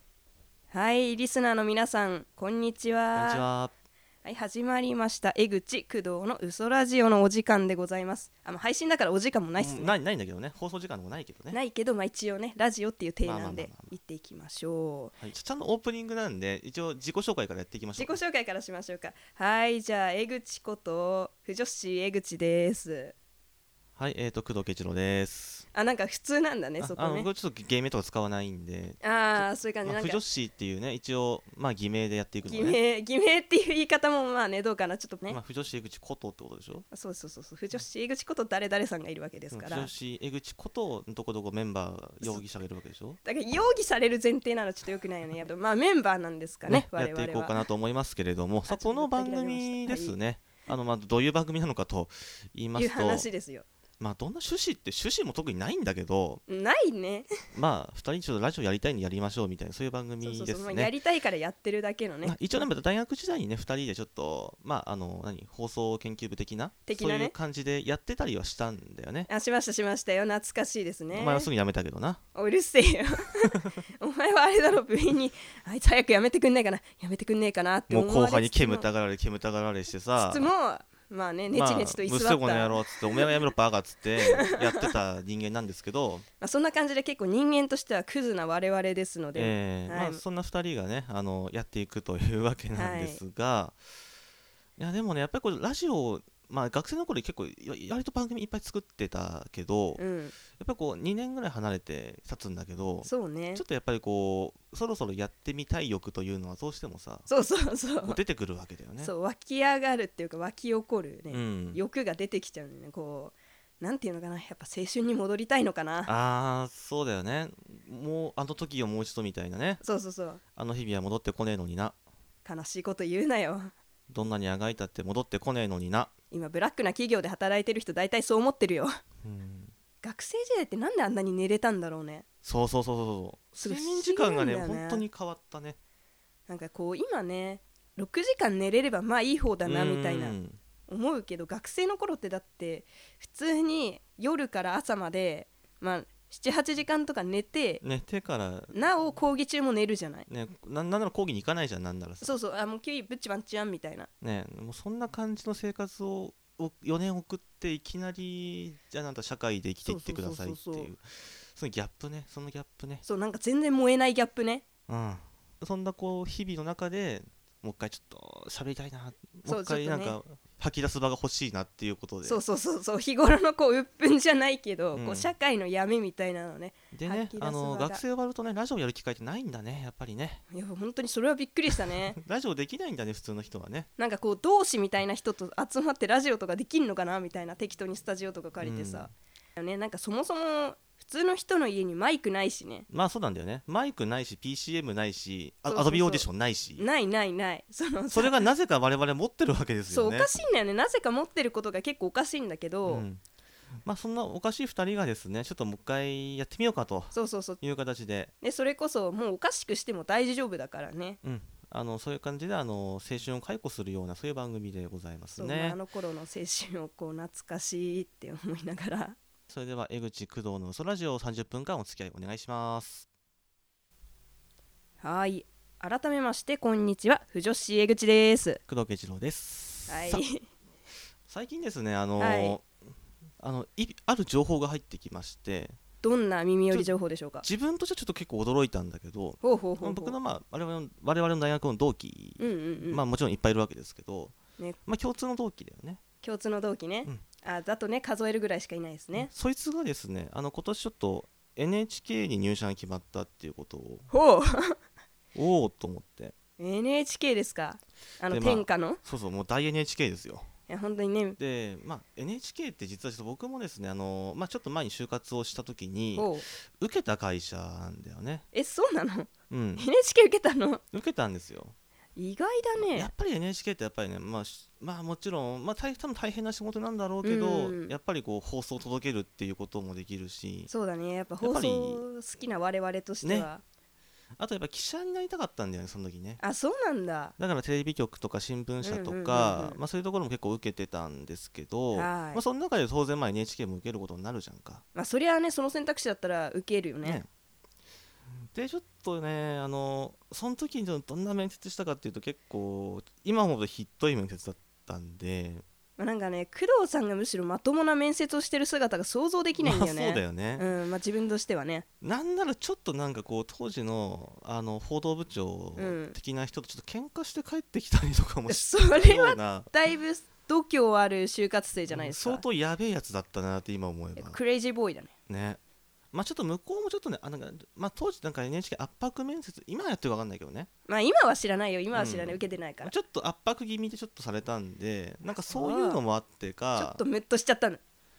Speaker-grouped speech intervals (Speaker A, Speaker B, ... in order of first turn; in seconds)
Speaker A: 0.7-3.5, 4.2-9.9, 11.5-15.2, 18.0-23.1, 25.7-27.3, 29.0-30.2, 32.5-35.4, 36.9-39.9, 43.2-47.6, 48.7-50.2, 52.8-53.7, 56.5-57.3, 60.2-62.4, 66.9-67.3, 69.3-71.5, 72.3-78.9, 80.2-83.3, 84.3-84.9, 86.4-90.2, 92.8-93.2, 100.0-100.3, 103.0-103.6, 107.3-108.2, 109.0-116.1, 119.8-120.4, 122.5-123.7, 126.3-129.0, 130.0-132.2, 133.6-135.1, 136.5-140.4, 140.9-147.8, 148.7-150.3, 152.2-154.1, 159.8-160.9, 163.0-164.7, 169.4-170.2, 172.2-178.0, 180.5-182.2, 184.0-192.9, 195.7-196.3, 196.8-198.4, 199.9-203.1, 207.1-207.6, 208.4-211.2, 215.4-219.2, 225.0-228.6, 229.9-230.5, 232.2-232.6, 236.0-237.5, 239.4-240.2, 242.4-243.0, 246.2-249.3, 254.1-254.8, 256.6-259.0, 260.7-261.4, 266.2-266.5, 268.5-270.8, 272.2-273.1, 277.2-277.9, 280.7-283.6, 286.4-287.4, 288.8-289.8, 291.9-292.4, 294.9-297.2, 306.0-311.9, 315.8-316.2, 318.5-322.4, 324.2-325.1, 330.9-332.9, 335.5-336.0, 336.8-337.8
Speaker B: 3.1-3.7, 9.6-11.6, 13.2-14.0, 15.2-18.2, 24.0-25.7, 26.8-32.8, 35.3-36.9, 39.5-43.2, 46.7-53.3, 54.0-56.4, 57.5-60.9, 62.2-69.3, 71.1-72.2, 77.9-80.5, 81.5-86.2, 89.3-93.8, 94.8-107.3, 108.0-109.1, 111.3-111.8, 116.1-119.8, 120.6-122.0, 124.1-126.1, 129.2-129.7, 132.4-135.8, 139.6-140.6, 147.8-148.7, 150.3-152.4, 154.2-163.0, 164.9-172.4, 174.9-175.3, 176.9-180.4, 181.9-183.9, 188.6-189.1, 192.9-196.9, 198.1-200.3, 202.9-203.2, 203.8-208.3, 211.2-215.8, 219.5-223.1, 228.7-230.2, 231.3-232.7, 233.4-235.8, 236.7-244.3, 244.9-246.0, 249.1-254.1, 255.3-256.4, 258.3-260.5, 261.4-268.4, 269.5-269.9, 270.9-271.8, 272.8-280.7, 281.4-282.1, 283.2-283.5, 284.4-286.4, 287.4-294.8, 297.0-297.3, 298.5-305.6, 309.6-310.7, 312.0-319.7, 321.9-324.4, 325.3-325.6, 326.1-330.7, 331.9-337.0